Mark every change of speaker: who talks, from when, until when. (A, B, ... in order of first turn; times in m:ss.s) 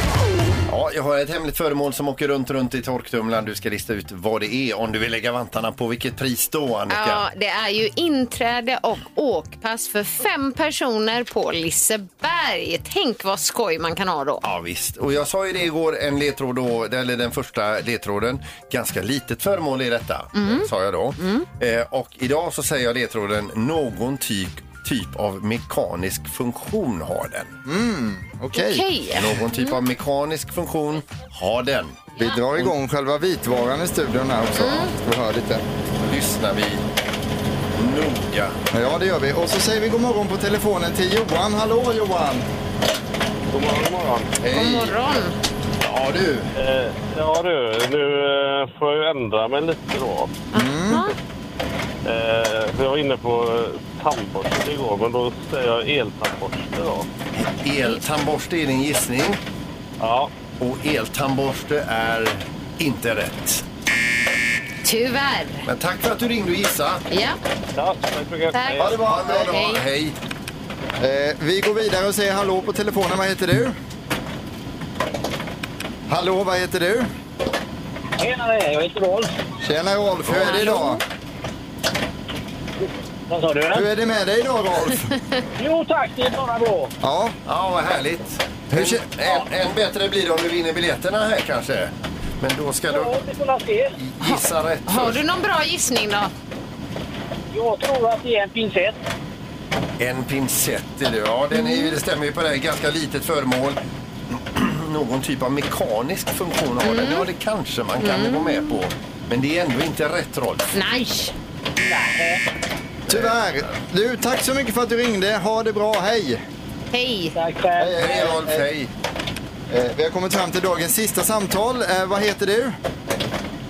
0:00.7-0:07.2 A
0:06.9-0:14.4 B
0:14.4-0:27.6 A
0:20.4-0:20.7 B
0:21.2-0:21.5 B
0:27.6-0:28.9 C
0:28.5-0:29.8 B
0:29.1-0:32.7 A
0:32.2-0:35.6 C
0:34.6-0:34.9 B
0:36.1-0:36.8 A
0:37.8-0:38.6 A
0:38.7-0:42.5 C
0:43.5-0:44.4 D
0:44.4-0:44.9 A
0:44.5-0:45.4 B
0:45.8-0:46.5 A
0:46.6-0:50.4 D
0:50.5-0:51.2 B
0:50.5-0:51.0 C
0:52.0-0:57.1 D
0:57.4-0:59.4 A
1:00.0-1:00.3 D
1:00.6-1:03.6 A
1:04.8-1:05.7 B
1:05.7-1:07.0 A
1:07.1-1:07.4 B
1:07.8-1:09.0 D
1:08.5-1:09.8 B
1:08.8-1:09.5 C
1:08.8-1:10.2 A
1:11.0-1:13.8 C
1:16.1-1:17.1 C
1:18.2-1:19.4 E
1:19.6-1:21.0 C
1:20.3-1:20.8 A
1:20.4-1:21.0 B
1:23.3-1:23.9 E
1:23.7-1:25.1 C
1:25.6-1:26.9 E
1:27.0-1:27.4 C
1:27.5-1:33.2 A
1:28.7-1:29.0 C
1:32.9-1:34.0 E
1:34.0-1:35.2 A
1:34.2-1:36.3 B
1:37.5-1:39.0 E
1:40.0-1:43.8 A
1:41.5-1:42.0 B
1:44.5-1:50.7 A
1:46.8-1:47.3 B
1:48.0-1:48.8 B
1:50.7-1:51.3 B
1:51.8-1:52.4 E
1:53.1-1:53.4 A
1:53.1-1:56.4 C
1:56.9-1:57.4 B
1:57.3-1:58.2 E
1:57.8-1:58.7 C
1:58.0-1:58.9 A
1:59.7-2:02.8 C